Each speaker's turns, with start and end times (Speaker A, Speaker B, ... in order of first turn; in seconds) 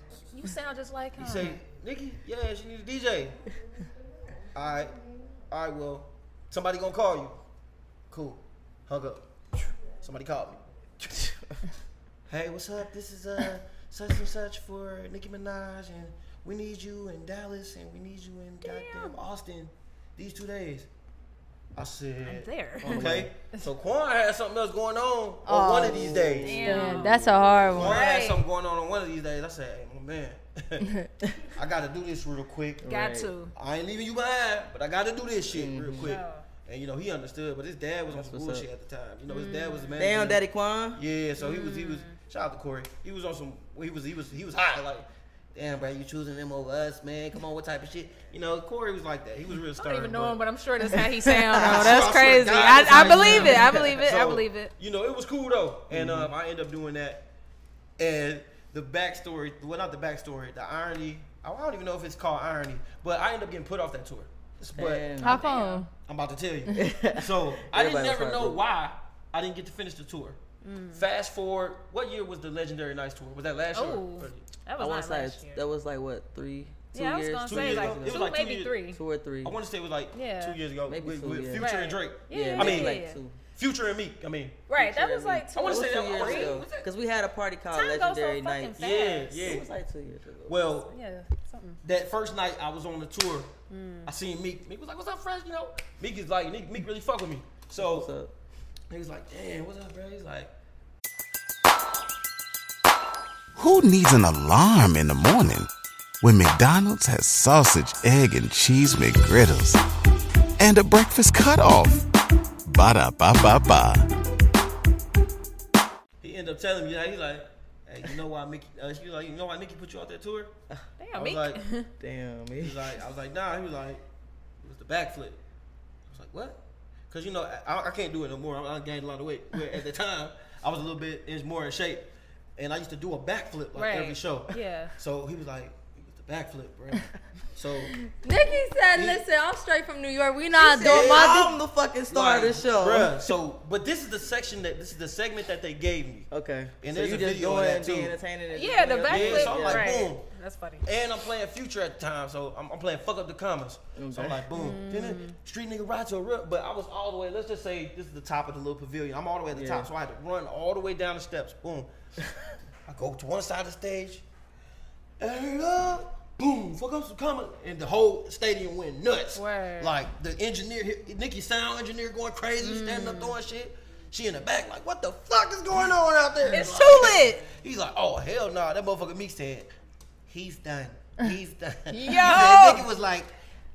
Speaker A: 0.3-1.6, 18.6-19.1, 22.2-23.6, 26.5-27.2, 27.8-28.4, 32.9-33.5, 36.0-36.5, 39.3-40.0, 41.4-42.1, 49.8-54.7, 65.2-65.8, 70.6-71.0, 73.7-75.6, 76.9-79.0, 80.1-80.6, 81.6-83.2, 84.7-86.7, 87.7-89.4, 90.9-91.8, 93.7-94.1, 121.0-121.9, 133.7-134.9, 148.5-150.8, 154.5-155.3, 169.3-169.9, 172.6-173.3, 176.5-177.4, 181.9-182.8
Speaker B: 1.2-3.4, 4.5-7.4, 8.1-9.2, 10.0-11.2, 12.3-20.9, 21.7-26.8, 27.7-30.9, 31.5-32.9, 33.5-40.4, 40.9-50.4, 51.5-57.3, 58.0-65.2, 66.0-70.4, 70.9-74.4, 77.5-78.8, 79.4-83.0, 83.5-86.9, 88.8-89.7, 90.5-91.0, 91.8-93.5, 94.0-98.1, 98.9-100.5, 116.2-120.5, 121.1-121.6, 122.6-124.0, 124.6-125.4, 126.1-137.9, 138.9-139.2, 140.8-141.6, 142.1-146.3, 146.8-148.2, 149.0-150.2, 150.8-161.9, 162.8-164.2, 165.2-179.7, 180.3-183.3
Speaker C: 11.3-11.5, 22.8-23.3, 25.8-28.0, 32.8-33.3, 35.5-36.1, 38.1-38.6, 40.0-41.0, 52.9-53.8, 55.9-56.3, 64.7-65.4, 66.7-68.6, 74.8-78.2, 78.9-79.5, 80.9-81.7, 82.3-83.3, 84.8-90.5, 97.8-98.3, 122.0-122.9, 140.6-143.2, 146.3-149.9, 153.9-154.4, 159.5-159.9
Speaker D: 25.4-28.0, 65.2-65.9, 138.1-141.5
Speaker E: 103.5-105.7, 106.2-109.8, 110.6-112.0, 112.7-114.1